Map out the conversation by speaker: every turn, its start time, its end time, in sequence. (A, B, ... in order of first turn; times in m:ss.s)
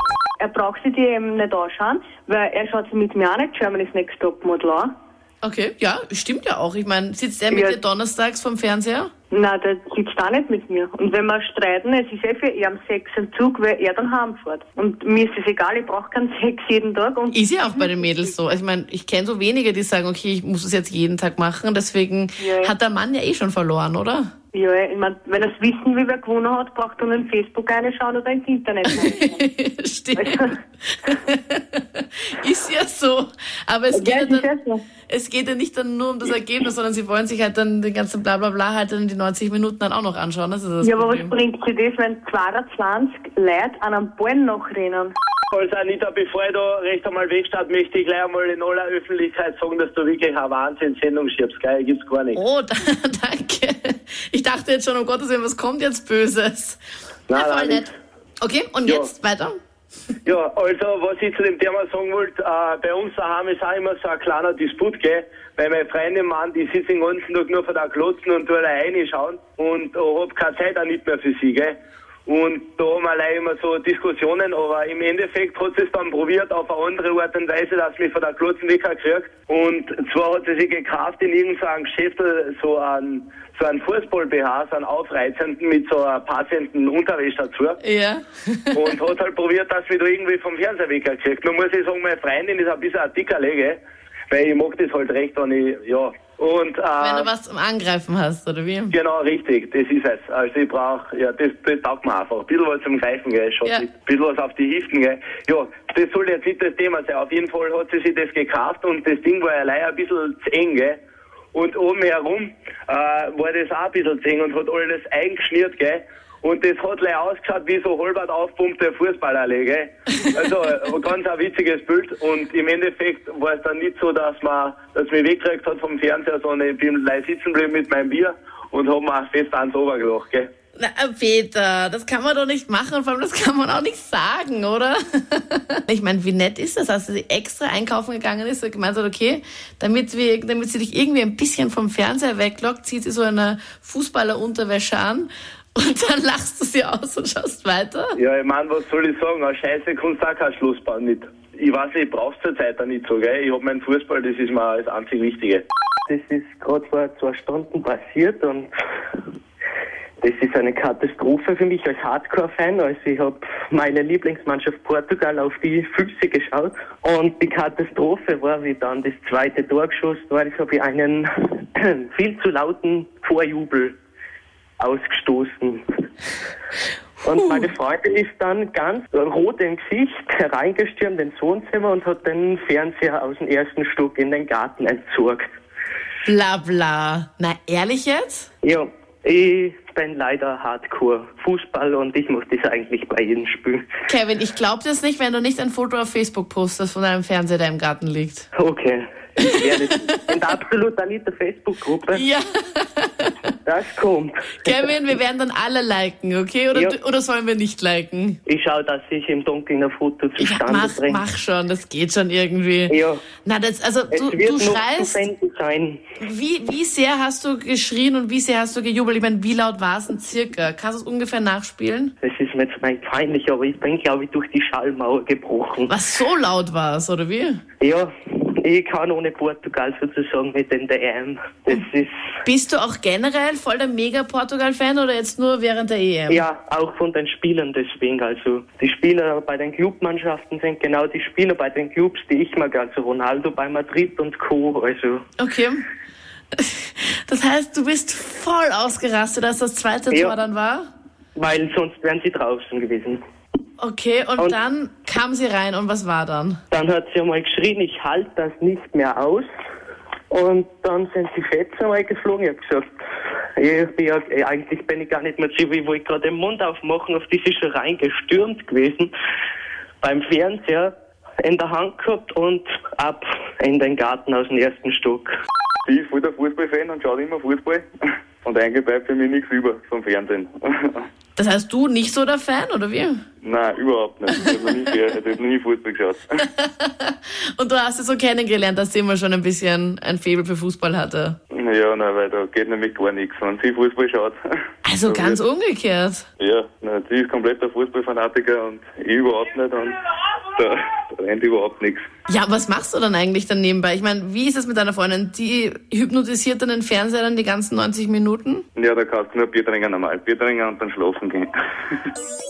0:00.4-0:04.9 A
0:05.4-0:09.1 B
0:07.5-0:07.8 A
0:09.3-0:17.8 A
0:17.3-0:24.3 B
0:22.4-0:22.7 A
0:24.5-0:29.4 A
0:28.8-0:34.5 B
0:30.2-0:30.5 A
0:33.9-0:34.8 A
0:35.1-0:41.3 B
0:40.8-0:45.1 A
0:45.5-0:52.4 C
0:52.3-0:56.8 B
0:57.3-0:57.9 C
0:57.3-0:57.9 B
0:58.4-0:59.6 B
1:00.2-1:27.8 C
1:27.8-1:28.9 B
1:28.7-1:33.8 C
1:34.3-1:37.3 C
1:37.0-1:38.9 B
1:38.9-1:51.0 C
1:51.5-2:10.5 C
2:10.8-2:28.1 B
2:28.2-2:35.6 C
2:36.1-2:38.7 D
2:40.2-2:54.0 D
2:54.8-2:55.8 D
2:57.2-3:05.4 D
3:06.2-3:08.5 B
3:08.6-3:13.8 D
3:14.1-3:18.5 B
3:18.6-3:22.2 D
3:22.1-3:23.4 B
3:23.6-3:24.8 D
3:24.6-3:28.4 B
3:28.4-3:31.2 D
3:30.4-3:35.2 B
3:32.9-3:33.2 D
3:34.1-3:36.0 D
3:36.2-3:42.1 B
3:42.2-3:45.9 D
3:45.9-3:47.6 B
3:47.8-3:52.1 D
3:52.4-3:56.4 B
3:56.3-4:05.2 D
4:05.4-4:05.8 B
4:06.5-4:10.8 B
4:10.1-4:10.4 D
4:11.4-4:13.2 D
4:13.8-4:16.6 B
4:16.7-4:19.5 D
4:20.3-4:22.8 D
4:23.6-4:29.1 D
4:30.0-4:35.3 D
4:35.8-4:37.8 E
4:38.4-4:41.0 E
4:41.4-4:43.2 B
4:43.4-4:46.2 E
4:44.4-4:44.8 B
4:46.6-4:51.4 B
4:51.5-4:54.4 E
4:54.8-4:56.2 B
4:55.0-4:55.4 E
4:56.4-5:00.0 E
5:00.5-5:02.1 E
5:02.3-5:08.6 B
5:08.8-5:11.5 E